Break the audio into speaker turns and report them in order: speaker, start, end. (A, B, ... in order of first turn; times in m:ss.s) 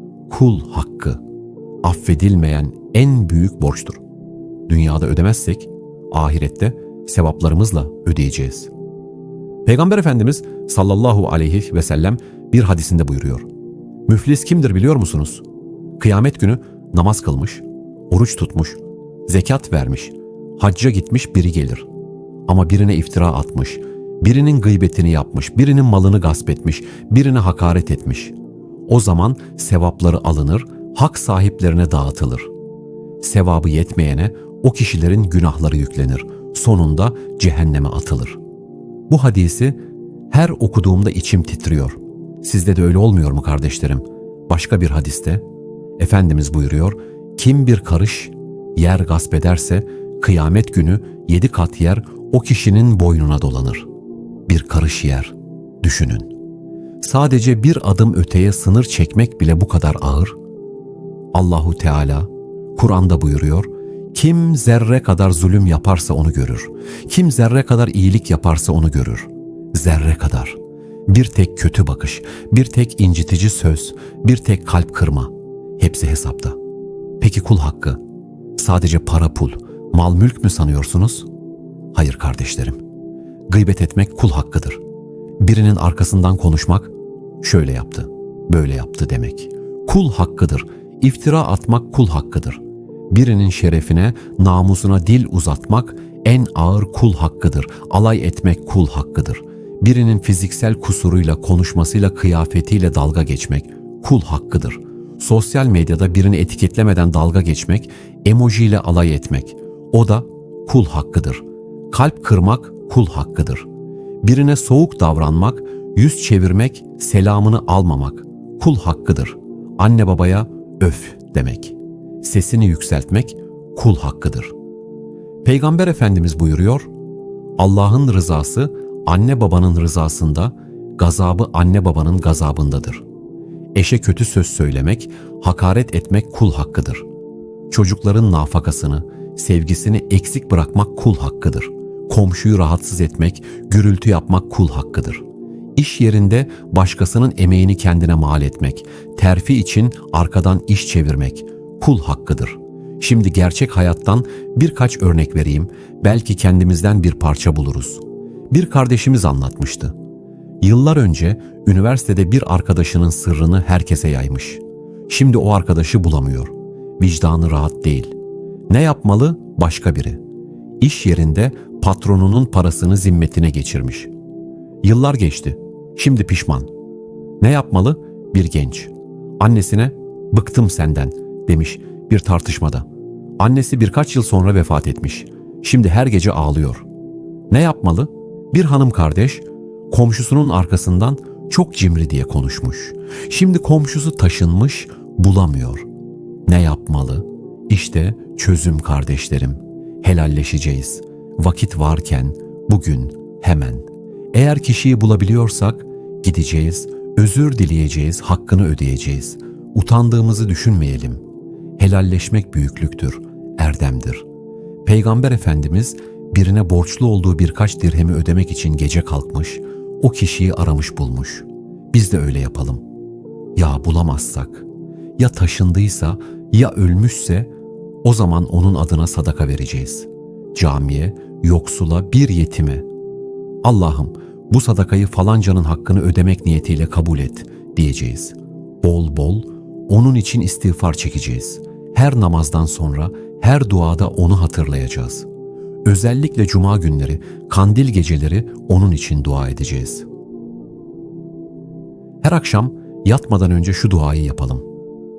0:00.3-0:01.2 A
0:01.8-0:04.0 A
0:04.7-0:08.7 A
0:09.6-0:13.5 A
0:14.1-0:15.4 A
0:16.0-0:21.9 A
0:22.5-0:28.4 A
0:28.9-0:32.5 A
0:33.2-0:38.4 A
0:39.1-0:39.8 A
0:40.3-0:45.4 A
0:46.0-0:53.9 A
0:54.5-0:56.3 A
0:57.0-1:00.4 A
1:01.3-1:16.6 A
1:17.2-1:18.0 A
1:18.6-1:21.3 A
1:21.9-1:22.8 A
1:23.5-1:24.8 A
1:25.4-1:53.7 A
1:54.2-2:04.5 A
2:05.4-2:06.9 A
2:07.6-2:13.0 A
2:13.7-2:17.1 A
2:17.7-2:25.2 A
2:25.8-2:40.0 A
2:40.6-2:48.1 A
2:48.7-2:50.2 A
2:50.8-2:54.1 A
2:54.8-2:56.7 A
2:57.4-3:02.9 A
3:03.4-3:06.8 A
3:07.5-3:15.9 A
3:16.5-3:31.2 A
3:31.8-3:34.3 A
3:34.8-3:42.8 A
3:43.6-3:44.7 A
3:45.2-3:47.5 A
3:48.0-3:52.9 A
3:53.6-4:05.3 A
4:05.8-4:10.1 A
4:12.2-4:14.6 A